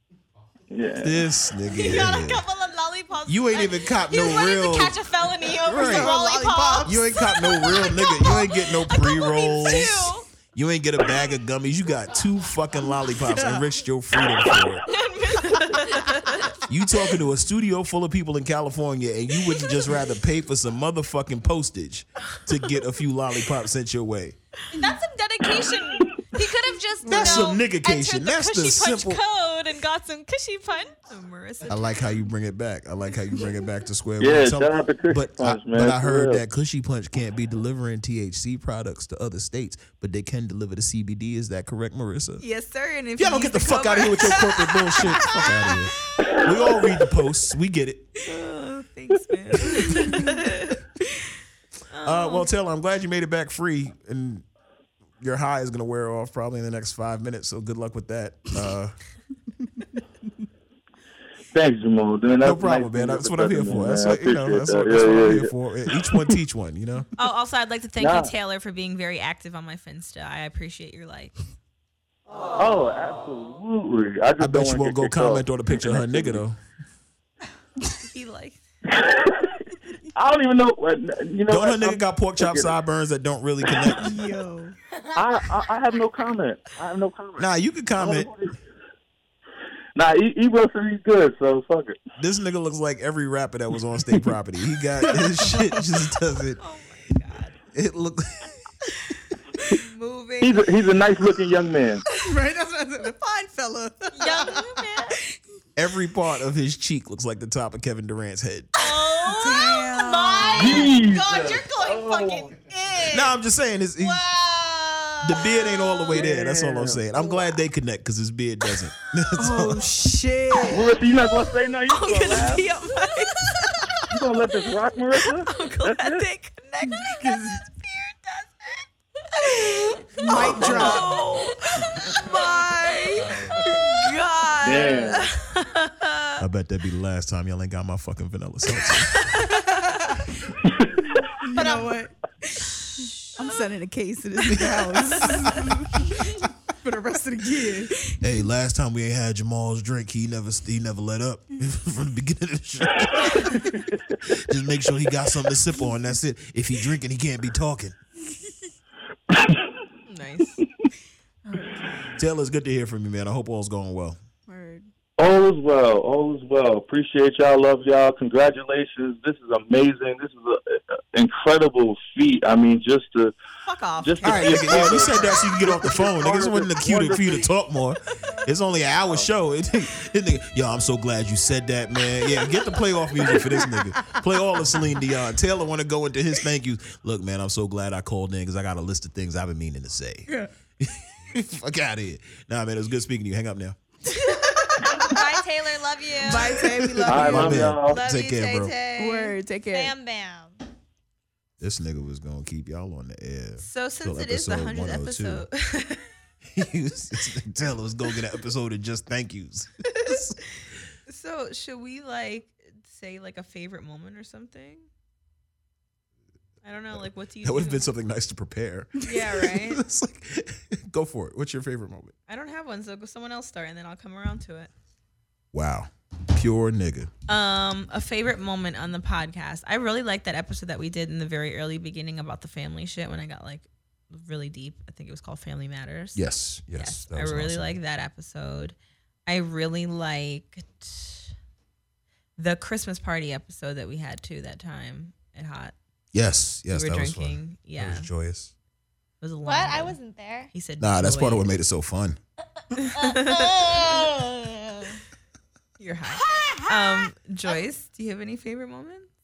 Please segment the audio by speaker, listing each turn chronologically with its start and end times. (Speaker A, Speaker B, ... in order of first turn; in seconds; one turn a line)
Speaker A: 0.7-1.2
Speaker B: 1.0-2.4
Speaker C: 1.7-10.3
Speaker B: 3.3-5.0
Speaker B: 5.6-6.1
Speaker D: 5.7-7.0
Speaker B: 6.8-14.9
Speaker D: 13.4-13.6
Speaker C: 14.9-16.5
Speaker E: 15.7-16.2
Speaker B: 16.6-24.4
Speaker C: 24.7-31.0
Speaker D: 27.0-27.4
Speaker B: 27.1-29.2
Speaker E: 31.1-31.9
Speaker B: 31.7-42.5
Speaker A: 34.2-36.4
Speaker E: 42.4-45.5
Speaker B: 43.2-48.2
Speaker E: 48.2-50.8
Speaker E: 51.9-52.5
Speaker B: 52.0-54.5
Speaker B: 55.2-59.0
Speaker A: 61.5-66.2
Speaker B: 62.4-67.1
Speaker E: 67.2-71.4
Speaker A: 68.0-68.3
Speaker A: 72.5-76.4
Speaker B: 74.4-76.6
Speaker E: 78.0-78.6
Speaker A: 78.9-79.6
Speaker A: 80.1-82.8
Speaker B: 81.5-84.2
Speaker D: 84.0-84.7
Speaker A: 85.1-88.5
Speaker B: 87.4-88.3
Speaker A: 90.0-92.0
Speaker B: 92.2-96.6
Speaker D: 95.1-95.8
Speaker E: 96.6-97.6
Speaker B: 97.7-98.6
Speaker E: 99.7-100.8
Speaker A: 100.4-102.0
Speaker D: 102.1-104.8
Speaker C: 104.1-105.2
Speaker B: 105.8-108.7
Speaker C: 108.8-113.3
Speaker D: 109.3-110.9
Speaker A: 110.6-112.6
Speaker B: 113.1-114.2
Speaker C: 114.0-116.3
Speaker B: 115.2-119.9
Speaker A: 116.1-117.1
Speaker D: 119.4-121.0
Speaker A: 120.7-122.7
Speaker E: 121.9-124.0
Speaker A: 124.1-126.2
Speaker E: 125.5-128.8
Speaker D: 126.9-127.6
Speaker E: 129.4-136.4
Speaker D: 130.2-131.2
Speaker A: 130.3-131.0
Speaker D: 132.3-133.1
Speaker D: 133.6-134.1
Speaker A: 134.6-135.3
Speaker B: 136.4-139.3
Speaker E: 139.1-139.8
Speaker D: 139.5-140.2
Speaker A: 140.7-141.0
Speaker D: 141.4-148.2
Speaker C: 141.6-142.0
Speaker B: 148.2-158.0
Speaker A: 159.3-159.6
Speaker E: 160.1-160.6
Speaker B: 162.2-164.2
Speaker D: 164.5-164.8
Speaker A: 165.2-173.3
Speaker E: 173.7-175.3
Speaker A: 174.0-177.5
Speaker B: 174.2-193.8
Speaker D: 183.3-184.2
Speaker D: 194.7-194.9
Speaker C: 194.9-196.6
Speaker D: 196.2-197.7
Speaker B: 196.8-198.8
Speaker A: 197.1-198.0
Speaker E: 197.1-199.3
Speaker D: 199.0-199.9
Speaker C: 199.7-200.6
Speaker B: 201.6-205.5
Speaker E: 203.6-206.1
Speaker B: 206.4-210.6
Speaker E: 211.1-214.9
Speaker E: 216.6-217.9
Speaker B: 216.9-222.1
Speaker E: 219.0-219.8
Speaker E: 222.3-224.7
Speaker B: 225.5-227.1
Speaker E: 227.3-241.3
Speaker B: 236.1-237.8
Speaker E: 242.4-245.8
Speaker B: 246.1-248.5
Speaker E: 246.7-248.1
Speaker E: 249.2-250.0
Speaker C: 249.4-250.5
Speaker E: 250.5-251.5
Speaker B: 250.8-252.2
Speaker E: 252.7-253.9
Speaker C: 252.9-255.0
Speaker E: 255.8-259.1
Speaker C: 256.3-256.8